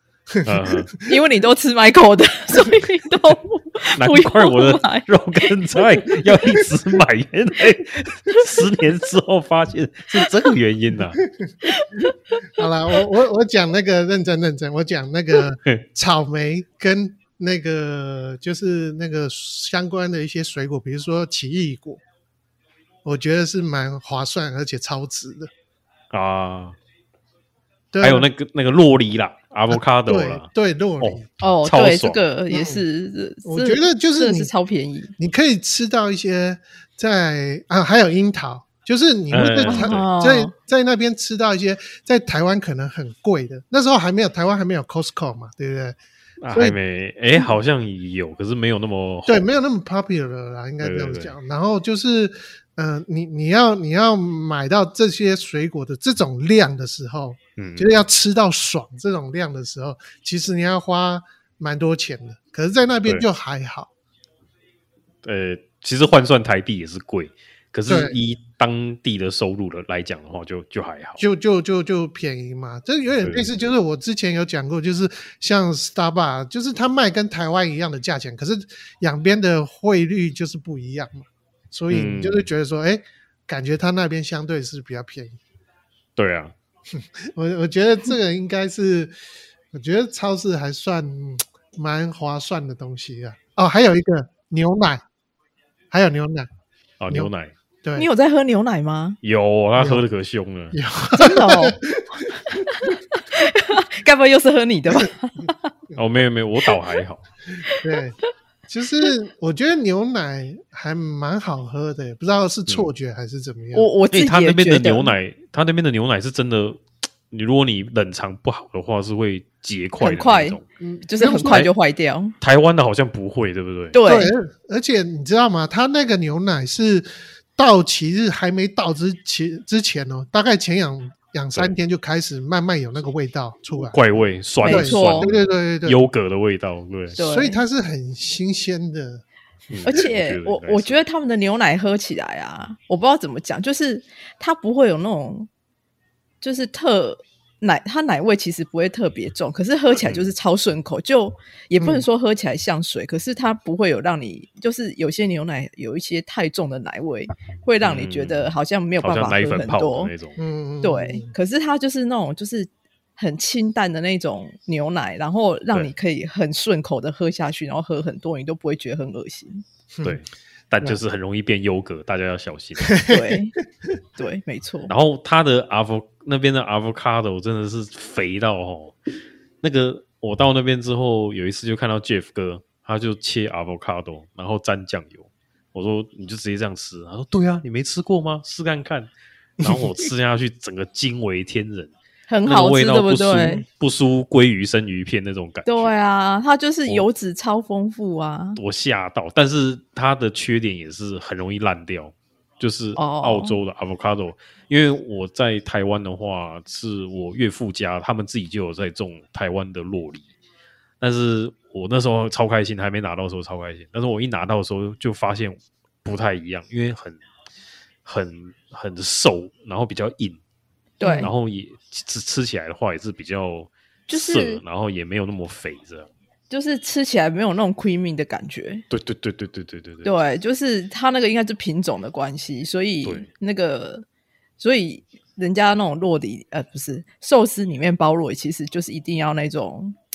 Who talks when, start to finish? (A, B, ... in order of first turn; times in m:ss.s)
0:00.3-0:01.0 A
0:00.4-0:00.9 B
0:01.0-0:06.0 C
0:04.0-0:11.2 B
0:11.6-0:12.4 C
0:12.6-0:22.0 A
0:23.0-0:25.5 A
0:26.1-0:26.8 B
0:27.9-0:28.3 A
0:28.0-0:30.4 B
0:29.7-0:31.3 A
0:31.0-0:32.2 B
0:31.4-0:35.1 C
0:32.5-0:32.8 A
0:33.4-0:34.5 A
0:35.2-0:46.0 A
0:39.3-0:40.0 B
0:39.6-0:40.5 C
0:46.4-0:49.4 B
0:49.2-1:03.9 A
0:50.8-0:51.3 B
0:57.6-0:57.9 B
1:05.2-1:11.2 B
1:07.9-1:08.2 A
1:11.2-1:25.4 A
1:13.2-1:13.5 B
1:21.9-1:22.4 B
1:26.2-1:26.5 B
1:26.9-1:29.1 A
1:29.7-1:35.0 A
1:35.9-1:36.5 A
1:37.0-1:37.5 B
1:38.0-1:39.2 C
1:39.2-1:40.8 B
1:39.8-1:40.0 A
1:40.7-1:42.9 A
1:41.1-1:41.8 C
1:42.7-1:45.7 C
1:46.0-1:47.2 B
1:47.7-1:48.0 C
1:47.7-1:53.9 A
1:53.7-1:55.1 C
1:54.1-2:00.6 B
2:00.0-2:02.3 C
2:00.8-2:01.7 A
2:01.4-2:01.7 B
2:02.4-2:04.0 B
2:03.9-2:04.3 C
2:04.0-2:14.0 A
2:13.8-2:17.2 B
2:14.6-2:15.3 C
2:14.6-2:16.0 A
2:17.2-2:17.6 C
2:17.2-2:19.2 A
2:19.7-2:21.0 B
2:19.8-2:25.5 C
2:26.4-2:40.1 C
2:29.9-2:30.2 B
2:31.8-2:32.0 A
2:37.8-2:40.4 B
2:40.4-2:41.3 A
2:40.8-2:49.6 C
2:50.0-2:53.0 B
2:52.8-2:53.3 A
2:53.1-2:53.6 C
2:54.2-2:54.9 C
2:54.9-2:59.0 B
2:59.6-3:09.1 B
3:09.6-3:10.0 A
3:09.6-3:11.9 B
3:12.3-3:13.6 C
3:12.4-3:15.9 B
3:15.6-3:18.6 C
3:18.6-3:30.3 B
3:23.0-3:23.6 C
3:31.0-3:37.2 B
3:38.0-3:40.4 B
3:41.0-3:41.3 C
3:41.0-3:41.3 A
3:41.2-3:46.1 B
3:44.1-3:44.6 C
3:46.5-3:48.8 C
3:48.9-3:50.1 B
3:50.0-3:54.0 C
3:54.6-4:00.0 C